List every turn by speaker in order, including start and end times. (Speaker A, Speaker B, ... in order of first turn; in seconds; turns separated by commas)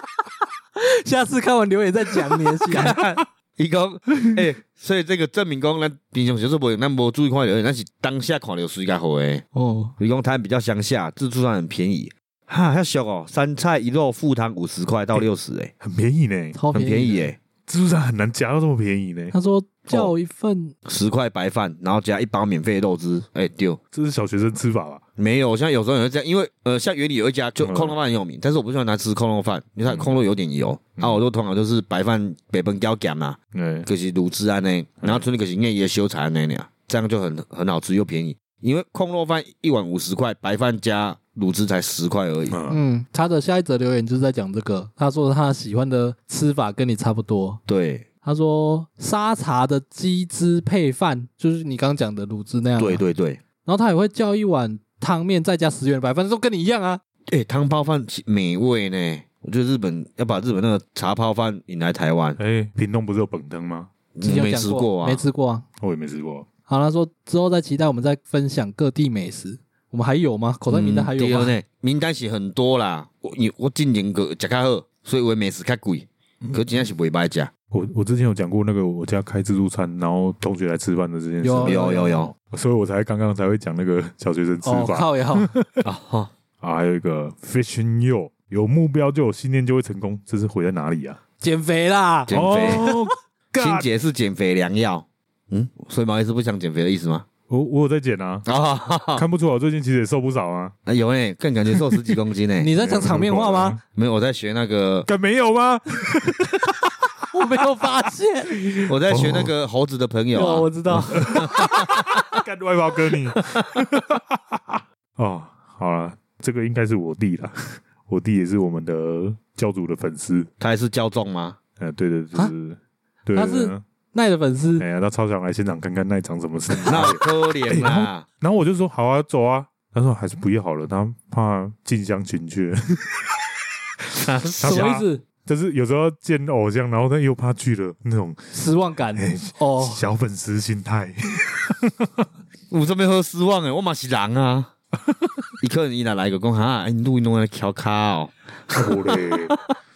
Speaker A: 0.8-3.0, Speaker B: 2.7-9.4, Speaker A: 9.5-9.9, Speaker B: 10.0-15.7, Speaker C: 15.8-16.6, Speaker A: 16.6-17.3, Speaker B: 16.7-17.4, Speaker C: 17.7-19.3, Speaker A: 19.3-20.7, Speaker B: 20.8-23.8, Speaker C: 23.9-25.0, Speaker B: 25.2-42.6, Speaker C: 27.6-27.9, Speaker C: 33.5-33.9, Speaker C: 42.5-42.8, Speaker A: 42.7-47.6, Speaker B: 47.7-48.1, Speaker A: 48.2-53.0, Speaker B: 52.8-53.4, Speaker A: 53.6-57.0, Speaker B: 57.3-62.4, Speaker C: 62.4-63.9, Speaker B: 64.1-65.2, Speaker A: 64.2-65.6, Speaker C: 65.8-66.5, Speaker A: 66.7-71.5, Speaker B: 70.7-77.5, Speaker C: 77.7-85.7, Speaker A: 81.4-82.2, Speaker B: 81.6-82.3, Speaker A: 84.6-85.5, Speaker B: 85.8-86.3, Speaker C: 86.6-91.2, Speaker A: 91.4-93.0, Speaker B: 92.3-92.8, Speaker C: 92.3-93.9, Speaker B: 93.6-97.2, Speaker C: 97.5-98.5, Speaker B: 98.4-99.2, Speaker C: 99.1-100.7, Speaker B: 100.9-102.7, Speaker C: 101.7-102.1, Speaker A: 102.6-103.8, Speaker C: 102.8-103.8, Speaker B: 103.9-105.1, Speaker C: 105.1-107.2, Speaker A: 107.3-108.9, Speaker C: 108.6-109.5, Speaker B: 108.9-112.2, Speaker A: 110.3-111.5, Speaker C: 111.1-120.5, Speaker B: 120.6-121.6, Speaker C: 121.8-123.8, Speaker A: 123.3-124.8, Speaker C: 124.8-133.4, Speaker B: 126.8-128.2, Speaker C: 134.1-138.6, Speaker B: 134.2-134.9, Speaker A: 134.4-135.2, Speaker A: 138.5-140.0, Speaker C: 139.1-142.2, Speaker B: 142.7-144.7, Speaker B: 145.6-149.6, Speaker C: 148.7-149.6